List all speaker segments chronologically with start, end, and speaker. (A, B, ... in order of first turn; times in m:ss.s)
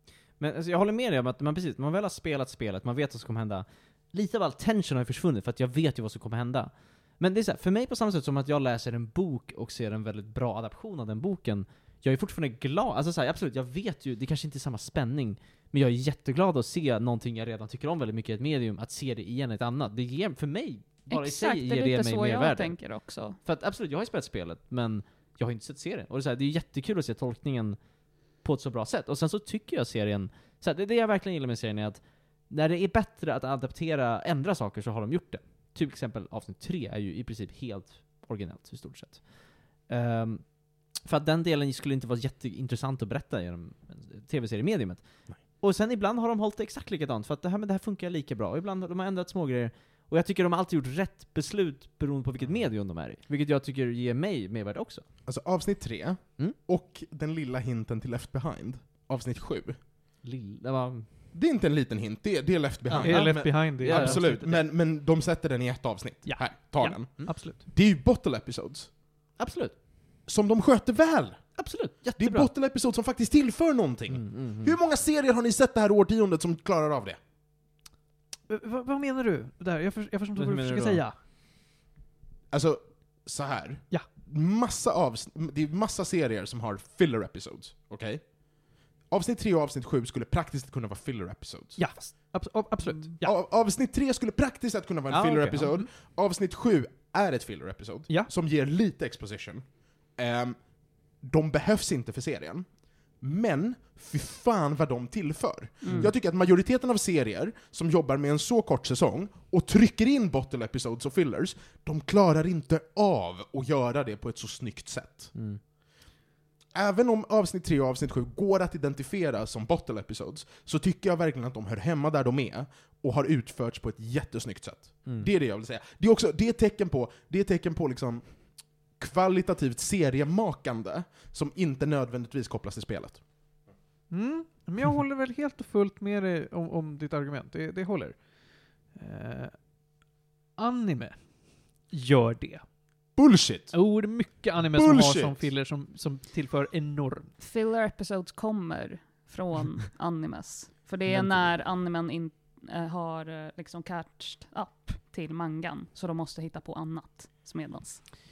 0:00.4-0:22.8 A
0:21.1-0:23.4 B
0:23.4-0:27.8 A
0:28.4-0:55.0 A
0:55.2-0:59.8 C
1:00.2-1:01.1 A
1:01.3-1:08.9 C
1:02.9-1:04.5 A
1:03.0-1:04.6 D
1:06.2-1:07.6 D
1:09.4-1:09.7 A
1:10.2-1:11.6 C
1:11.6-1:12.5 A
1:12.1-1:17.2 C
1:14.1-1:14.7 A
1:18.5-1:21.2 D
1:20.3-1:21.0 A
1:22.5-1:28.4 C
1:29.1-1:31.9 C
1:31.8-1:33.3 D
1:33.2-1:40.6 C
1:35.1-1:35.7 A
1:41.2-1:55.3 C
1:45.8-1:46.1 B
1:45.8-1:46.1 A
1:55.3-1:55.6 A
1:56.7-2:13.2 C
2:14.1-2:18.2 D
2:18.9-2:19.6 D
2:20.6-2:21.2 D
2:21.9-2:22.6 D
2:23.2-2:23.8 C
2:23.7-2:27.3 D
2:24.7-2:25.5 C
2:27.4-2:38.0 B